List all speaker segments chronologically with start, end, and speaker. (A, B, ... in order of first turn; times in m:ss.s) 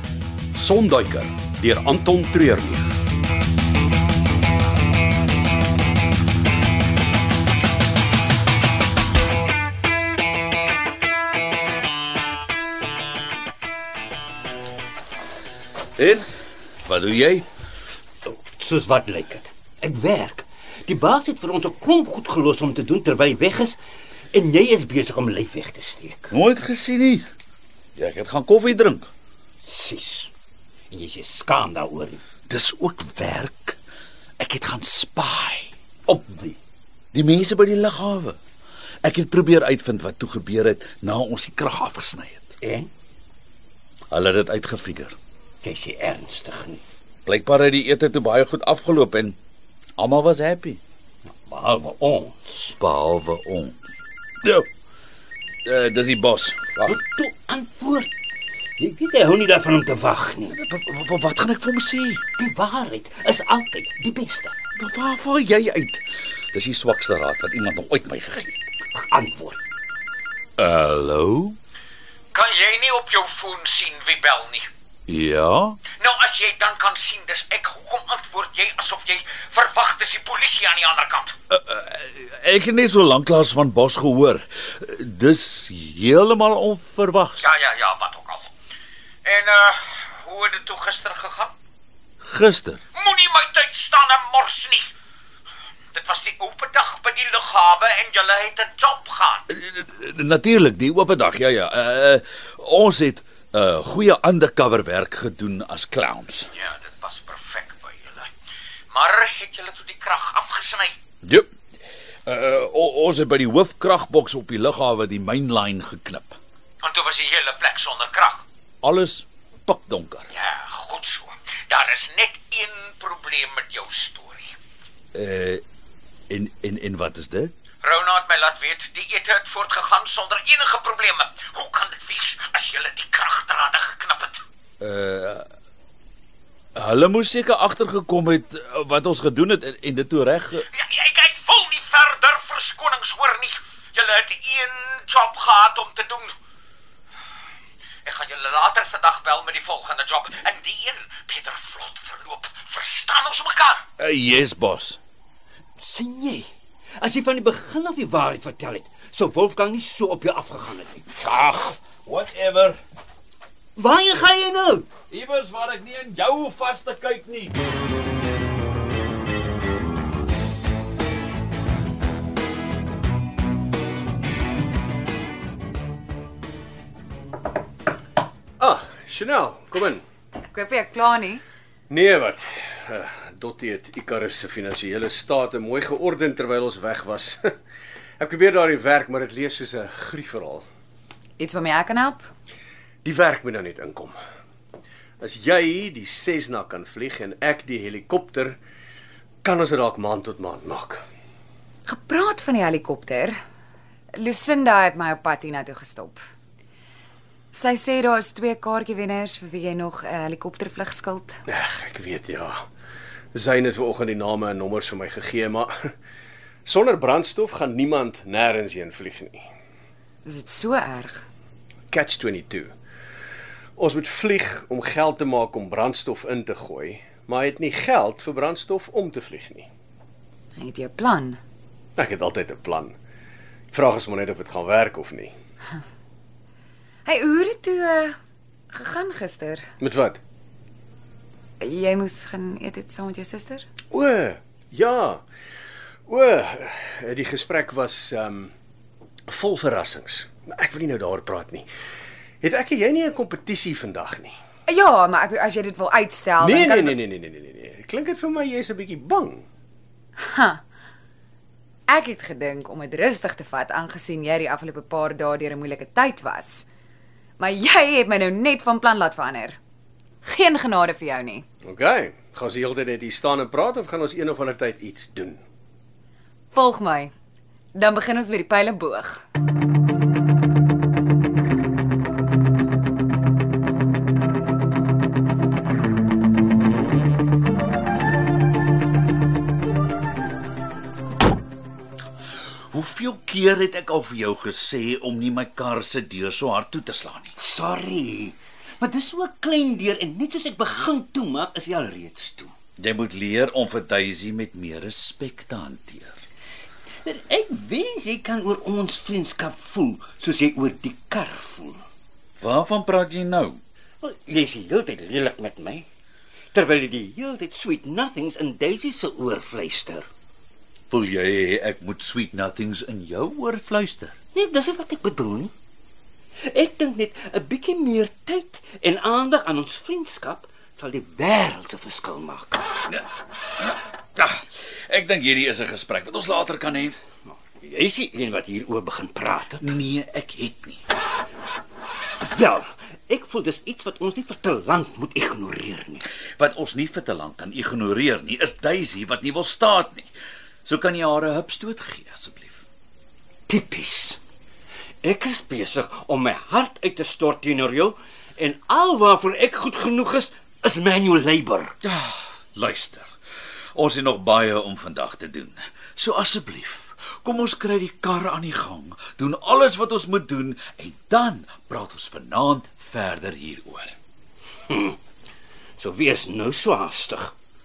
0:00.5-0:02.8 A
0:16.0-0:16.3 B
0:16.8-0:17.5 B
0:18.2-0:23.8 C
0:24.3-0:26.3 C
0:26.3-0:27.3 B
0:28.0-0:29.1 B
0:29.6-0:30.3 C
0:30.9-0:32.2 C
0:32.5-0:33.8 B
0:34.4-0:35.7 B
0:36.1-0:36.6 C
0:37.1-0:38.4 B
0:39.0-0:42.6 B
0:42.6-0:42.9 C
0:44.1-0:45.2 B
0:45.6-0:46.8 C
0:47.3-0:49.4 B
0:50.0-0:50.8 B
0:51.5-0:52.7 C
0:52.8-0:53.8 B
0:55.6-0:57.0 B
0:56.9-0:58.1 C
0:58.8-1:00.6 C
1:00.5-1:02.2 B
1:02.4-1:04.6 C
1:04.8-1:08.6 B
1:08.9-1:09.6 C
1:10.6-1:11.6 B
1:12.3-1:14.7 D
1:15.1-1:15.8 B
1:15.9-1:21.4 D
1:21.5-1:27.5 B
1:27.4-1:28.5 D
1:29.2-1:31.5 D
1:32.2-1:32.8 B
1:33.0-1:34.9 D
1:35.9-1:39.5 D
1:39.5-1:46.5 B
1:46.6-1:48.3 D
1:48.9-1:50.9 D
1:52.3-1:56.4 B
1:56.8-1:58.4 D
1:58.8-2:00.3 B
2:00.3-2:04.6 D
2:05.1-2:05.6 B
2:06.3-2:07.5 B
2:07.8-2:14.4 D
2:14.8-2:15.4 B
2:16.8-2:20.6 B
2:20.7-2:26.4 D
2:28.0-2:33.8 D
2:34.0-2:35.0 B
2:35.8-2:41.1 C
2:41.1-2:42.8 B
2:43.8-2:44.9 C
2:45.1-2:47.6 B
2:58.6-3:00.0 E
3:00.5-3:01.4 F
3:01.9-3:07.5 E
3:08.2-3:10.6 E
3:11.4-3:12.2 F
3:13.0-3:14.2 E
3:15.2-3:18.6 E
3:19.4-3:21.0 E
3:21.9-3:23.4 F
3:24.2-3:26.2 F
3:27.5-3:31.4 F
3:31.5-3:32.6 E
3:33.3-3:35.9 E
3:36.7-3:39.5 E
3:40.2-3:41.2 F
3:41.9-3:42.7 E
3:43.8-3:49.7 E
3:50.6-3:51.4 F
3:52.0-3:53.0 E
3:53.7-3:55.3 E
3:57.0-3:58.2 F
3:58.7-3:59.7 F
3:59.8-4:00.2 E
4:01.6-4:03.7 F
4:03.9-4:05.2 E
4:06.1-4:08.5 E
4:09.3-4:11.7 E
4:12.4-4:14.4 E
4:14.7-4:17.0 F
4:16.4-4:19.5 E
4:20.2-4:20.6 F
4:21.9-4:26.7 F
4:27.4-4:29.6 F
4:30.2-4:31.5 F
4:31.6-4:35.4 E
4:36.5-4:37.1 F
4:37.7-4:39.2 F
4:52.7-4:57.3 B
4:57.4-5:02.5 C
5:02.8-5:06.2 B
5:07.0-5:11.8 C
5:12.4-5:13.6 B
5:14.0-5:15.9 C
5:16.5-5:20.1 C
5:20.9-5:24.2 B
5:24.3-5:25.5 C
5:26.5-5:32.7 C
5:33.6-5:37.0 B
5:37.6-5:39.7 C
5:39.6-5:40.8 B
5:42.2-5:46.1 C
5:46.4-5:50.1 B
5:50.6-5:52.6 B
5:53.5-5:54.2 C
5:55.0-6:01.8 C
6:01.8-6:03.1 B
6:03.8-6:13.9 B
6:14.7-6:15.0 C
6:15.8-6:17.3 C